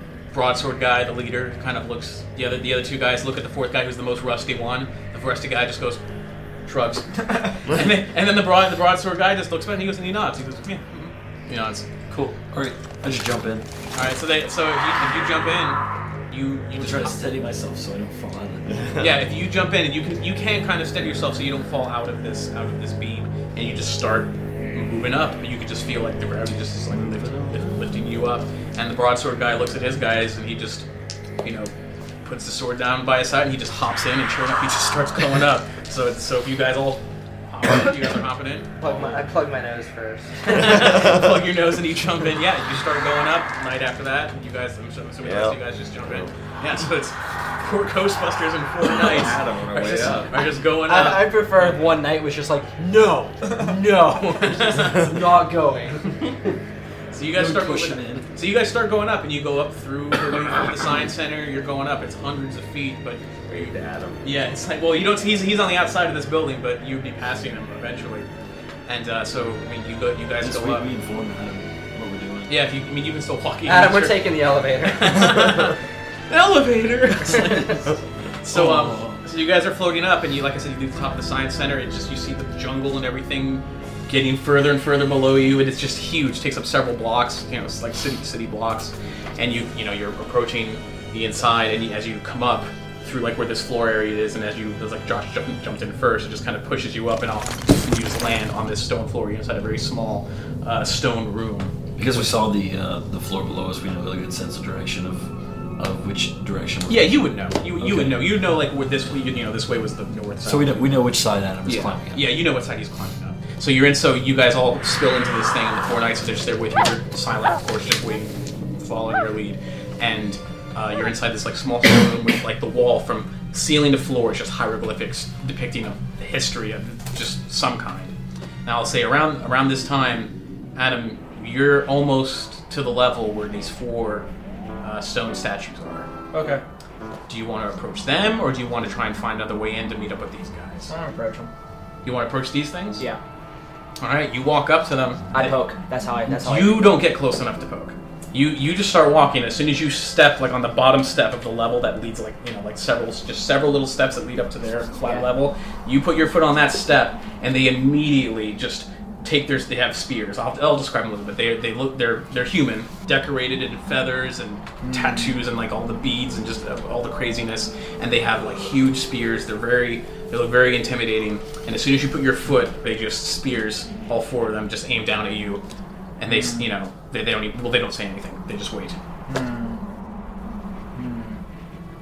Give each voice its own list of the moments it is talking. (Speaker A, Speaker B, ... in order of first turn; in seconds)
Speaker A: 0.3-6.0, 6.7-12.3, 13.9-17.3, 19.0-30.9, 31.4-31.7, 32.2-38.8, 40.4-51.8, 54.4-55.0, 57.1-63.7, 64.2-68.3, 68.8-70.9, 72.5-77.9, 78.4-102.3, 106.9-110.9, 111.6-128.1, 128.6-134.3, 134.8-136.1, 137.3-140.9, 142.0-143.0, 144.0-145.6, 146.3-175.6, 176.2-179.0
Speaker B: 12.5-13.7, 16.7-18.9, 57.3-58.3, 70.4-72.5, 78.5-79.2, 101.9-107.2, 107.8-108.3, 110.4-112.3
Speaker C: 38.8-41.0, 50.8-56.5, 73.7-75.5
Speaker D: 45.2-46.3, 49.0-50.3, 63.5-64.2
Speaker E: 136.3-136.6, 140.9-141.5, 145.3-146.9, 155.0-155.2, 164.8-165.4, 176.2-176.7, 179.3-179.8, 180.9-181.4